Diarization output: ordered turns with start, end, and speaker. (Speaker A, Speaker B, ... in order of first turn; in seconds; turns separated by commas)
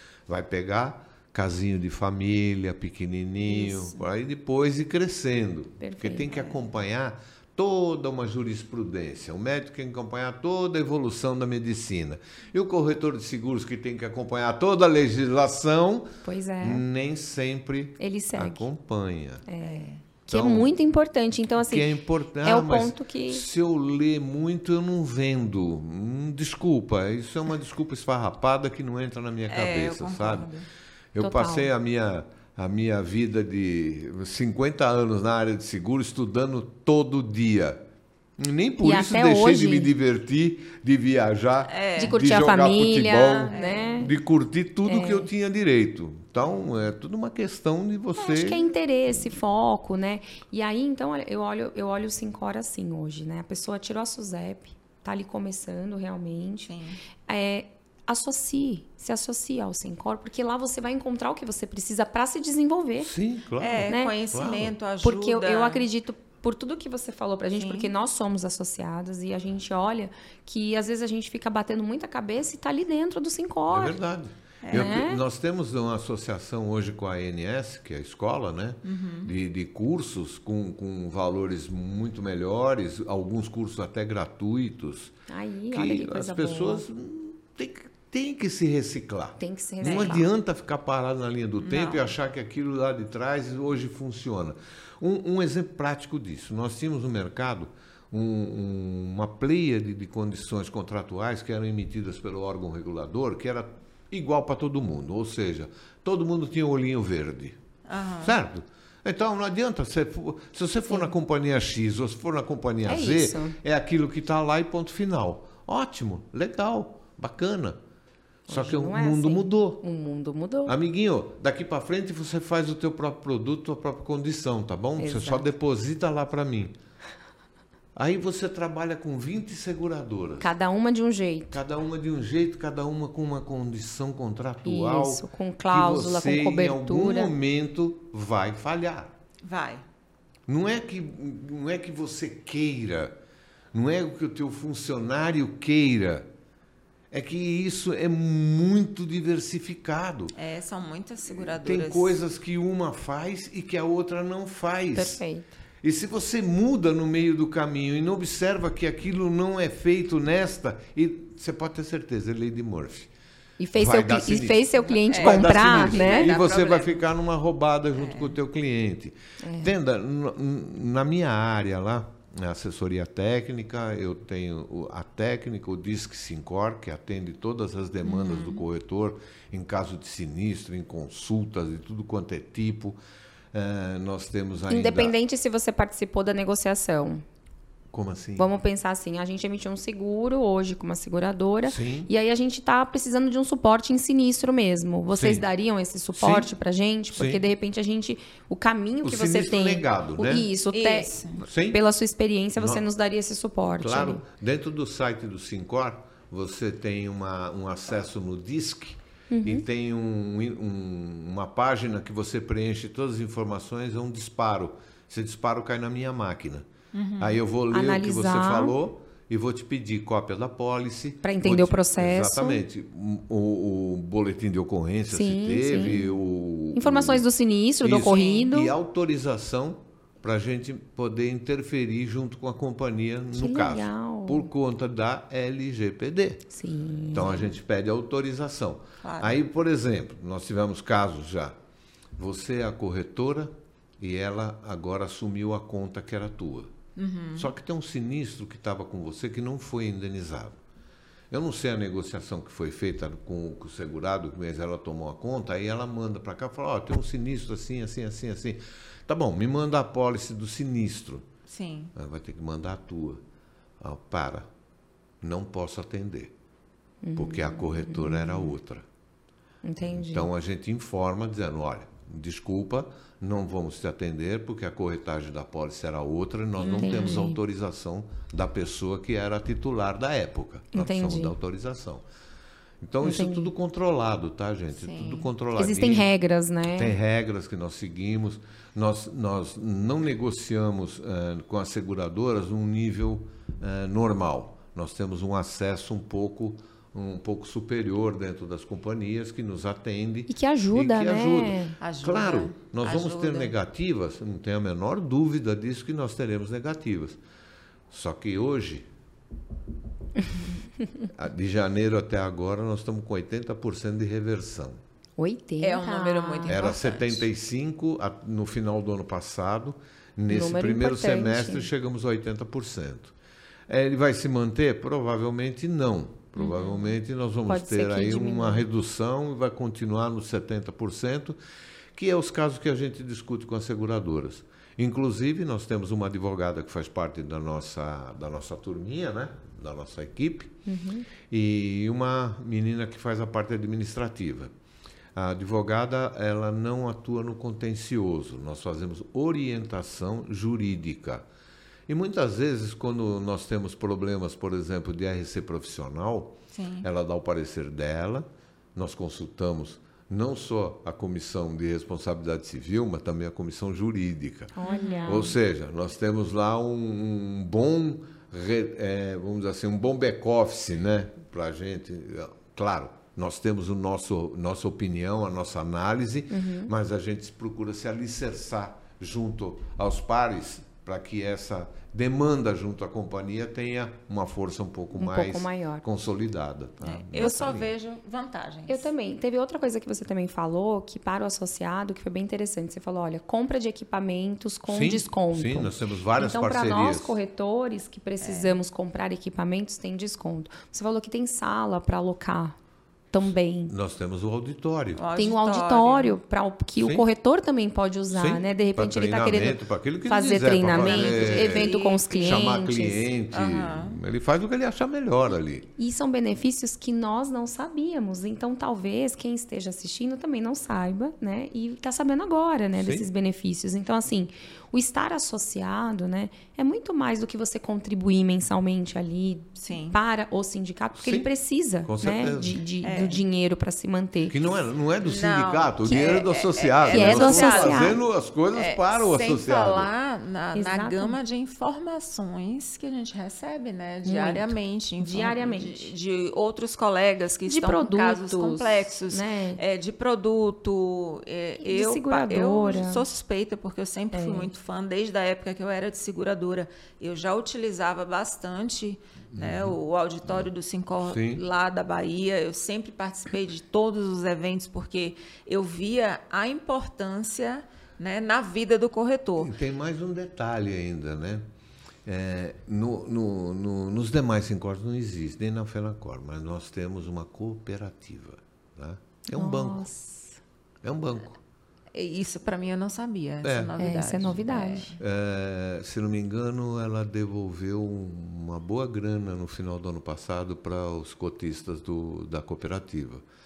Speaker A: 0.3-19.4, Speaker B: 3.5-4.0, Speaker C: 5.8-6.3, Speaker C: 16.2-16.8, Speaker C: 18.0-18.7, Speaker C: 19.5-23.4, Speaker B: 19.6-20.0, Speaker A: 20.3-20.7, Speaker A: 21.6-30.5, Speaker B: 29.5-30.7, Speaker A: 31.1-37.8, Speaker C: 31.2-31.7, Speaker A: 38.4-48.7, Speaker C: 38.8-39.9, Speaker B: 41.7-42.2, Speaker C: 42.0-44.1, Speaker B: 43.5-44.1, Speaker C: 44.8-45.3, Speaker C: 48.2-56.8, Speaker B: 56.7-57.0, Speaker C: 57.3-63.1, Speaker A: 63.0-64.8, Speaker B: 63.6-65.9, Speaker C: 63.9-64.2, Speaker C: 65.0-74.0, Speaker B: 67.6-67.9, Speaker A: 73.7-85.1, Speaker B: 74.6-75.0, Speaker C: 74.7-75.2, Speaker B: 78.8-79.3, Speaker C: 85.3-86.8, Speaker A: 85.7-107.6, Speaker C: 89.4-90.3, Speaker B: 89.8-90.2, Speaker B: 91.6-92.1, Speaker B: 107.9-108.4, Speaker A: 108.2-117.8, Speaker C: 112.8-113.6, Speaker A: 118.5-119.8, Speaker C: 118.5-120.8, Speaker A: 120.7-126.7, Speaker C: 125.0-125.5, Speaker A: 128.0-130.5, Speaker C: 130.4-131.6, Speaker A: 131.5-139.1, Speaker C: 134.6-137.3, Speaker B: 139.4-139.8, Speaker A: 140.5-143.2, Speaker A: 143.7-146.3, Speaker A: 147.1-150.3, Speaker B: 150.4-152.2, Speaker A: 151.4-155.2, Speaker C: 154.9-155.5, Speaker A: 155.8-163.1, Speaker C: 163.6-166.3, Speaker A: 163.8-183.0, Speaker B: 165.1-167.0, Speaker B: 168.0-168.4, Speaker C: 169.4-169.7, Speaker B: 178.0-178.6, Speaker A: 183.5-185.1, Speaker C: 184.7-187.2, Speaker A: 187.9-188.5, Speaker C: 188.4-204.2, Speaker A: 191.7-192.1, Speaker A: 195.2-195.5, Speaker A: 196.1-196.5, Speaker A: 197.1-197.5, Speaker A: 199.0-200.5, Speaker B: 200.7-201.4, Speaker A: 201.4-201.8, Speaker A: 202.6-202.8, Speaker A: 203.8-227.2, Speaker C: 209.3-209.7, Speaker B: 216.9-217.4, Speaker C: 217.7-218.7, Speaker C: 221.2-222.6, Speaker C: 225.1-226.2, Speaker C: 226.8-228.7, Speaker A: 227.8-236.5, Speaker B: 228.0-228.5, Speaker C: 233.3-234.5, Speaker C: 236.5-237.5, Speaker A: 237.1-241.6, Speaker B: 237.2-237.4, Speaker B: 239.0-239.3, Speaker A: 242.2-246.7, Speaker B: 247.0-247.5, Speaker A: 247.3-250.6, Speaker A: 251.3-261.3, Speaker B: 261.5-261.9, Speaker A: 261.9-263.2, Speaker A: 263.8-264.5, Speaker A: 265.2-266.3, Speaker C: 267.0-268.5, Speaker A: 267.2-268.9, Speaker C: 269.6-270.3, Speaker A: 269.8-282.0, Speaker B: 276.6-277.3, Speaker C: 276.8-277.4, Speaker C: 280.7-281.4, Speaker A: 282.8-286.1, Speaker C: 283.0-283.5, Speaker B: 284.8-285.3, Speaker C: 285.6-287.0, Speaker A: 286.7-307.2, Speaker C: 300.3-301.8, Speaker B: 301.8-303.6, Speaker A: 307.9-308.9, Speaker A: 311.1-314.8, Speaker C: 315.2-316.8, Speaker B: 315.6-317.2, Speaker A: 316.5-323.1, Speaker C: 320.3-321.7, Speaker A: 323.7-331.4, Speaker B: 326.4-326.9, Speaker C: 327.5-328.7, Speaker A: 331.9-340.6, Speaker C: 340.7-341.1, Speaker A: 341.3-344.5, Speaker A: 345.1-351.3, Speaker A: 351.9-364.6, Speaker B: 356.5-356.9, Speaker C: 364.6-365.4, Speaker B: 364.7-365.3, Speaker A: 365.1-387.7, Speaker C: 376.3-376.7, Speaker C: 384.9-385.8, Speaker B: 386.8-388.9, Speaker C: 387.2-387.6, Speaker C: 388.7-402.6, Speaker A: 394.7-397.2, Speaker B: 398.2-398.6, Speaker C: 403.1-403.7, Speaker A: 403.7-405.1, Speaker B: 405.0-406.2, Speaker C: 405.1-413.1, Speaker A: 406.8-407.1, Speaker A: 408.1-415.7, Speaker B: 410.7-412.4, Speaker B: 413.3-414.0, Speaker C: 415.8-434.4, Speaker A: 422.8-423.1, Speaker B: 429.6-430.0, Speaker A: 431.0-431.3, Speaker A: 431.8-432.6, Speaker B: 432.8-433.2, Speaker A: 434.3-439.9, Speaker B: 435.0-438.0, Speaker C: 435.9-436.2, Speaker C: 436.9-438.0, Speaker B: 438.5-469.5, Speaker C: 440.5-441.2, Speaker C: 444.1-445.9, Speaker C: 447.5-449.6, Speaker C: 451.6-453.0, Speaker C: 454.1-454.5, Speaker A: 459.3-460.5, Speaker A: 461.0-461.4, Speaker A: 469.4-471.5, Speaker A: 472.1-479.9, Speaker C: 479.4-480.4, Speaker A: 480.8-481.4, Speaker B: 481.9-485.0, Speaker A: 483.4-483.8, Speaker C: 483.8-485.0, Speaker A: 485.0-493.2